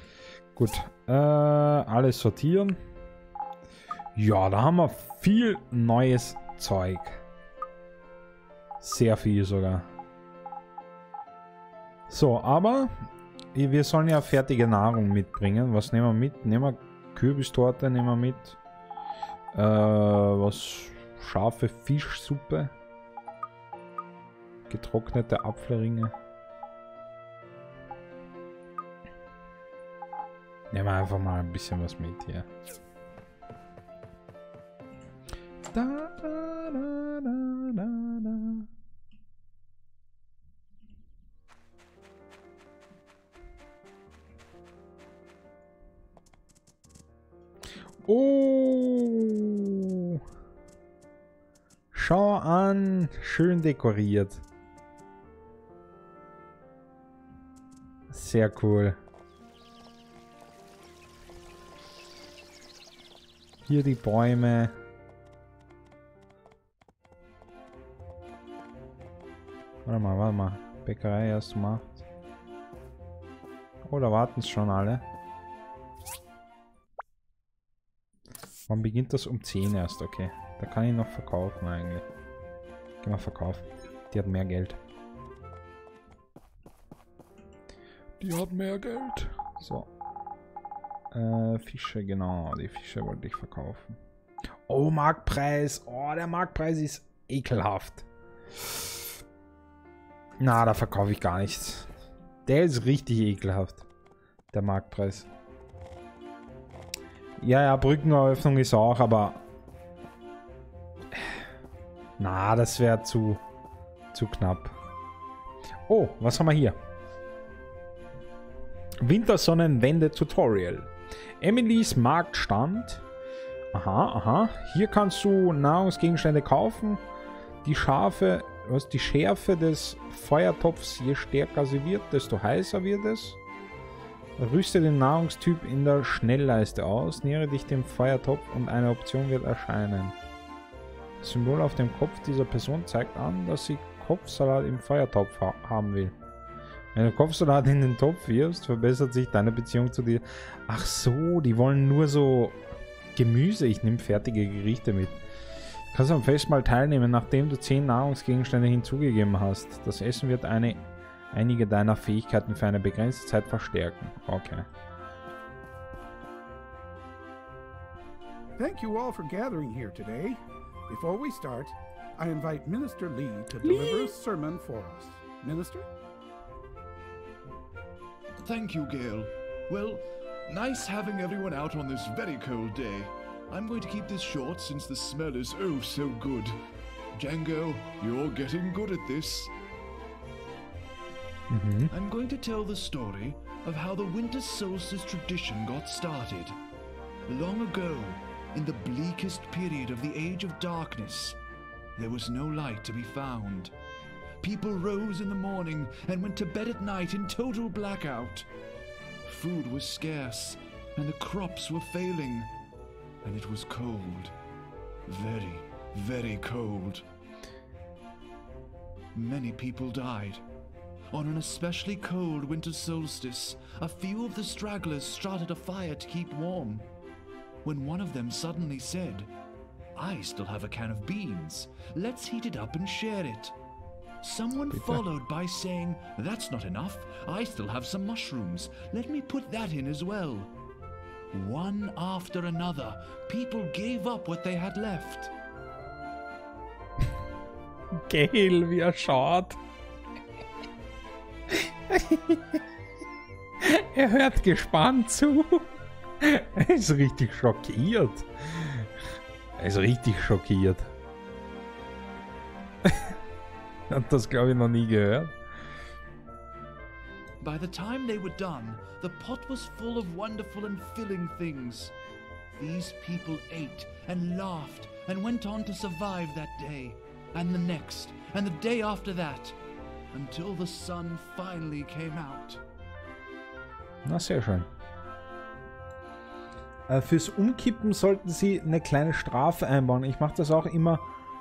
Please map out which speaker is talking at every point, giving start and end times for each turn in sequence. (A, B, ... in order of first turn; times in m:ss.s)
0:00.6-0:02.8 A
0:04.2-0:07.2 A
0:08.8-0:09.9 A
0:12.1-0:12.9 A
0:13.5-0:18.6 A
0:19.5-0:22.7 A
0:24.7-0:26.1 A
0:30.7-0:32.5 A
0:35.7-0:38.7 A
0:48.0-0:50.2 A
0:51.9-0:54.4 A
0:58.1-0:59.0 A
1:03.7-1:04.8 A
1:09.9-1:12.0 A
1:13.8-1:15.0 A
1:18.7-1:22.0 A
1:23.0-1:24.8 A
1:28.2-1:29.9 A
1:31.1-1:34.0 A
1:34.7-1:38.0 A
1:40.4-1:41.9 A
1:42.4-1:43.8 A
1:44.5-1:45.3 A
1:47.4-1:49.4 A
1:51.1-1:51.4 A
1:52.2-1:53.4 A
1:54.1-1:54.8 A
1:55.9-1:56.8 A
1:59.0-2:00.9 A
2:01.4-2:03.0 A
2:03.7-2:07.0 A
2:07.6-2:13.4 A
2:14.4-2:20.2 A
2:21.2-2:26.2 A
2:26.9-2:32.6 A
2:33.2-2:35.2 A
2:35.9-2:44.7 A
2:48.6-2:55.9 B
2:53.6-2:54.1 A
2:58.4-3:06.6 C
3:07.1-3:09.5 C
3:11.5-3:11.9 A
3:11.9-3:16.6 C
3:17.3-3:21.4 C
3:22.0-3:23.7 C
3:24.4-3:28.5 C
3:29.2-3:32.5 C
3:33.2-3:34.3 C
3:35.1-3:37.0 C
3:39.1-3:40.4 C
3:41.1-3:46.9 C
3:47.6-3:49.3 C
3:50.0-3:53.6 C
3:54.2-4:00.5 C
3:54.7-3:55.0 A
4:01.3-4:05.3 C
4:08.1-4:09.6 A
4:11.5-4:12.6 A
4:13.6-4:15.7 A
4:16.2-4:18.9 A
4:19.6-4:20.9 A
4:22.8-4:23.1 A
4:23.9-4:25.4 A
4:27.4-4:31.9 C
4:32.5-4:39.6 C
4:40.1-4:42.6 C
4:44.0-4:44.7 A
4:46.9-4:51.1 A